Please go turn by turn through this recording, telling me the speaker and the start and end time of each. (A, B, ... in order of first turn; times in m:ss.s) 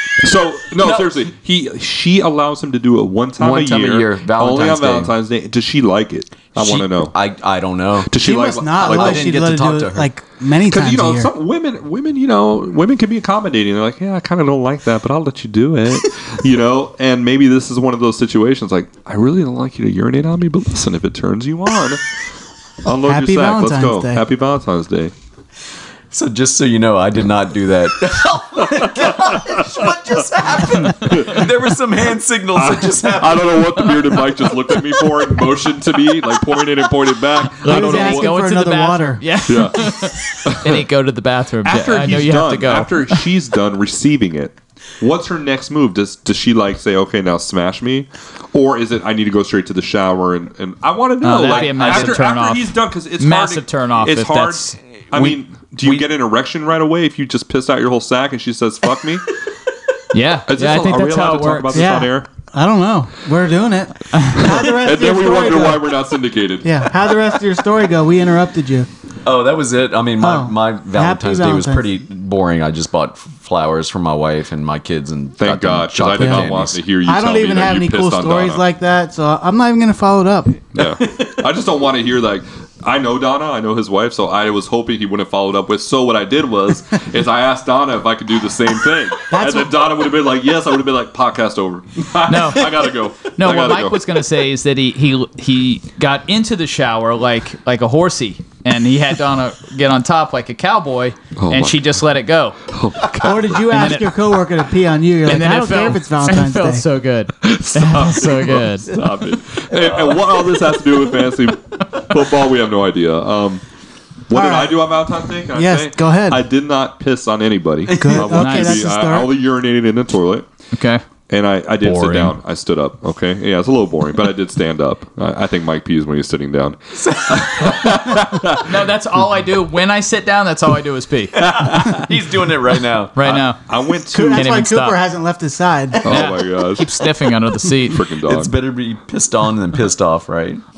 0:00.2-0:07.1 A
0:00.8-0:01.2 B
0:03.4-0:05.1 B
0:06.6-0:08.1 B
0:08.1-0:09.4 A
0:08.2-0:11.3 C
0:08.8-0:10.1 B
0:10.7-0:22.2 A
0:22.8-0:25.1 A
0:23.0-0:24.2 C
0:26.1-0:34.1 B
0:28.6-0:30.1 A
0:30.9-0:31.6 A
0:32.5-0:38.3 A
0:37.5-0:43.2 D
0:37.6-0:39.2 C
0:39.5-0:40.8 A
0:41.6-0:59.4 A
0:51.2-0:54.8 D
0:51.5-0:52.2 B
0:55.1-0:56.0 B
1:00.1-1:01.9 D
1:00.5-1:02.3 A
1:01.7-1:05.9 C
1:04.3-1:07.4 A
1:06.6-1:08.9 C
1:09.2-1:16.8 B
1:10.2-1:11.9 C
1:15.4-1:18.6 A
1:16.2-1:16.5 C
1:17.0-1:20.7 C
1:20.7-1:34.0 A
1:20.8-1:21.3 B
1:29.3-1:29.7 C
1:32.3-1:42.6 D
1:41.4-1:41.8 A
1:42.7-1:43.9 A
1:43.2-1:46.8 C
1:43.7-1:44.1 D
1:45.2-1:48.9 D
1:47.4-1:53.6 A
1:49.7-1:50.2 B
1:54.3-2:00.4 A
1:54.3-1:54.8 C
1:55.5-1:56.4 C
1:57.9-1:58.2 B
1:58.0-1:59.3 C
1:58.3-1:58.8 D
2:00.7-2:01.0 D
2:01.3-2:08.8 A
2:01.8-2:02.4 D
2:07.0-2:08.1 B
2:08.6-2:11.9 D
2:11.4-2:12.1 A
2:12.0-2:13.2 B
2:13.1-2:13.6 D
2:13.2-2:14.6 A
2:14.1-2:16.2 C
2:14.3-2:15.0 D
2:16.0-2:16.8 A
2:16.0-2:18.0 D
2:17.9-2:18.5 A
2:18.2-2:20.6 B